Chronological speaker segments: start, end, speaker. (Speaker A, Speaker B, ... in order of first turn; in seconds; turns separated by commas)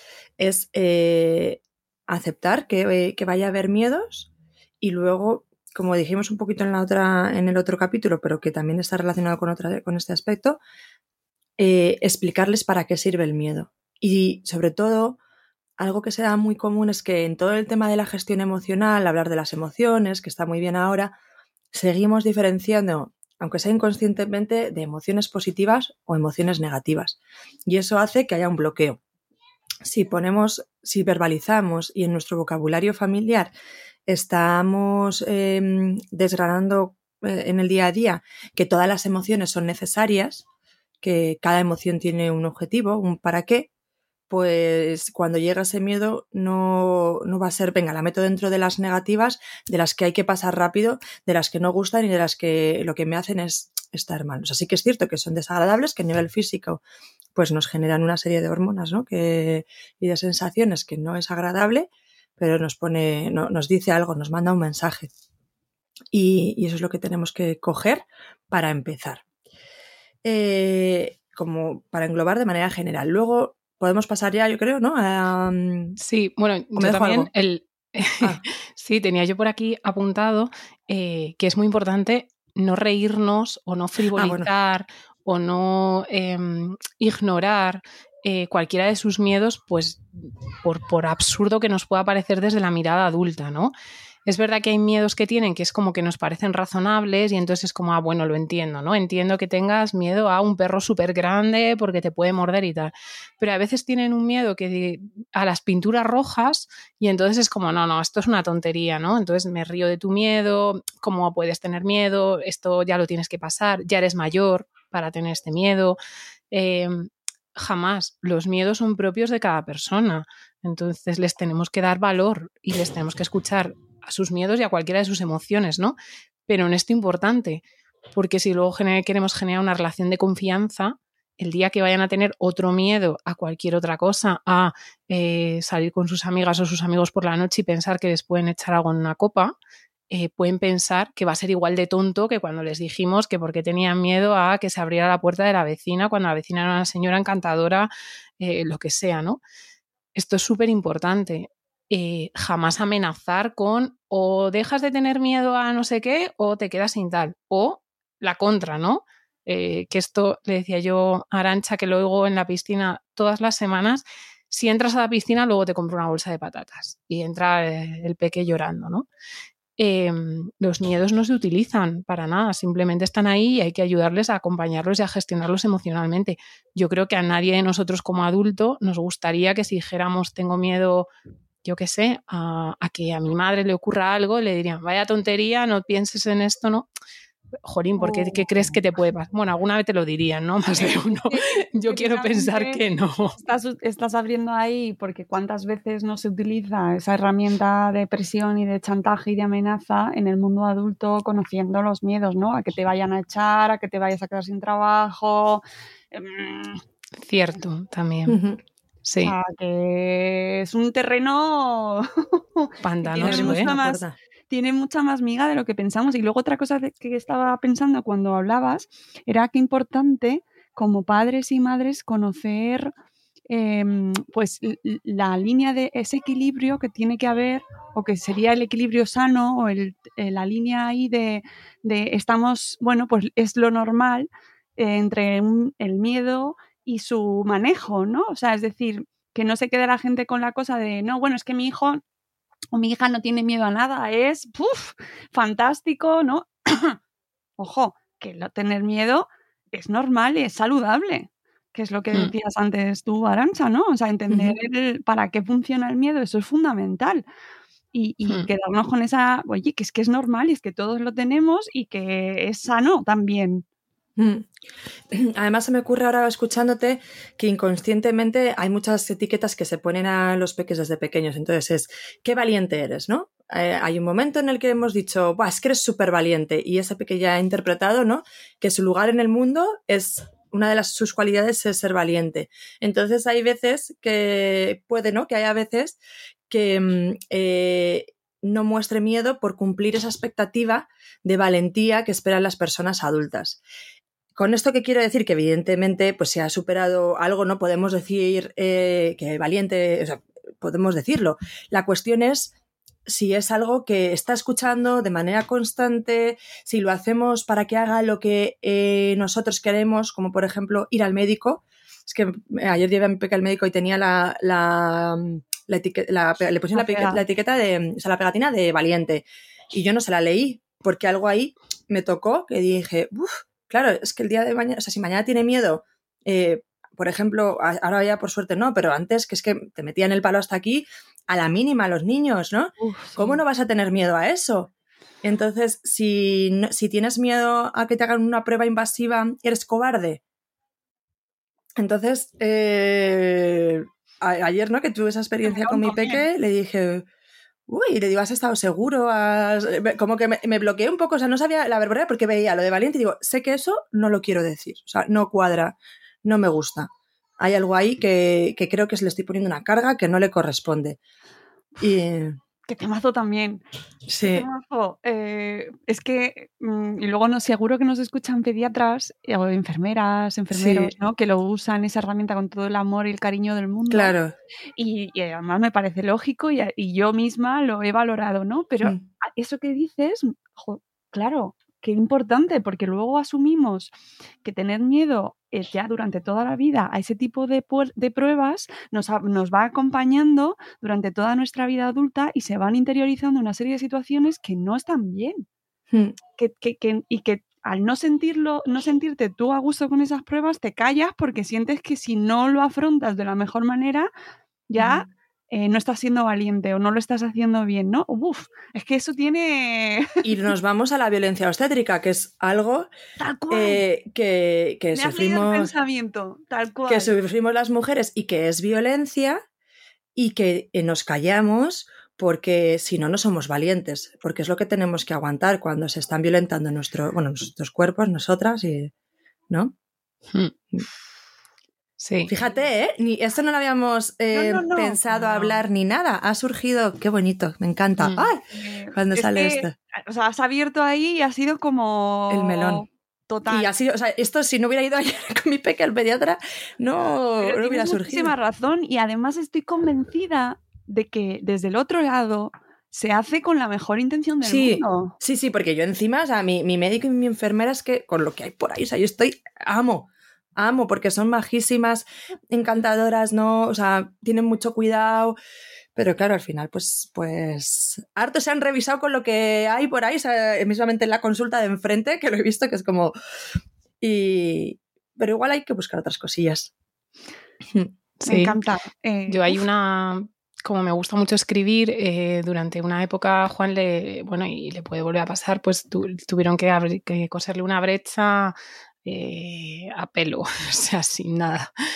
Speaker A: 0.4-4.3, Speaker A: 4.8-10.6, Speaker A: 11.6-15.2, Speaker A: 15.8-21.2, Speaker A: 21.7-29.0, Speaker A: 29.8-33.5, Speaker A: 34.1-40.5, Speaker A: 41.0-43.7, Speaker A: 44.3-56.8, Speaker A: 57.4-65.1, Speaker A: 66.1-69.2, Speaker A: 70.2-76.0, Speaker B: 76.0-93.7, Speaker A: 76.8-77.3, Speaker A: 84.1-84.5, Speaker B: 94.3-116.0, Speaker B: 116.5-126.0, Speaker B: 126.5-127.6, Speaker B: 128.1-139.5, Speaker B: 140.1-149.4, Speaker B: 150.2-169.1, Speaker B: 169.8-181.1, Speaker B: 181.6-186.9, Speaker B: 187.6-193.3, Speaker C: 188.0-188.7, Speaker C: 190.7-192.8, Speaker C: 193.4-206.8, Speaker B: 207.2-208.4, Speaker A: 208.3-208.6, Speaker B: 209.1-209.3, Speaker C: 209.2-222.9, Speaker B: 212.8-213.7, Speaker A: 213.2-214.2, Speaker C: 223.5-242.0, Speaker C: 242.7-247.0, Speaker C: 247.6-257.3, Speaker C: 257.9-263.6, Speaker A: 264.2-264.5, Speaker A: 265.1-286.0, Speaker A: 286.5-293.6, Speaker A: 294.4-302.5, Speaker A: 303.1-334.7, Speaker C: 316.7-317.2, Speaker C: 332.8-333.4, Speaker A: 335.2-340.2, Speaker A: 341.8-347.1, Speaker C: 345.4-346.2, Speaker A: 347.7-356.9, Speaker A: 357.4-361.0, Speaker A: 361.8-362.4, Speaker C: 362.7-363.6, Speaker A: 364.1-364.5, Speaker C: 364.2-374.1, Speaker A: 370.5-370.9, Speaker A: 373.9-374.4, Speaker C: 374.8-383.9, Speaker C: 384.4-395.5, Speaker A: 395.9-396.2, Speaker C: 396.4-404.1, Speaker C: 404.7-410.5, Speaker A: 404.8-405.0, Speaker A: 410.2-412.9, Speaker C: 413.2-413.8, Speaker A: 413.5-415.7, Speaker C: 414.9-417.1, Speaker A: 416.9-419.4, Speaker A: 420.2-428.9, Speaker B: 432.0-432.3, Speaker A: 432.3-438.4, Speaker C: 434.3-435.0, Speaker B: 438.0-438.2, Speaker C: 438.5-443.7, Speaker A: 438.9-439.7, Speaker A: 442.3-442.9, Speaker A: 443.5-448.3, Speaker C: 447.4-455.1, Speaker A: 454.4-465.4, Speaker A: 465.9-473.1, Speaker A: 474.0-476.7, Speaker B: 478.2-478.6, Speaker C: 478.3-479.6, Speaker B: 479.3-491.7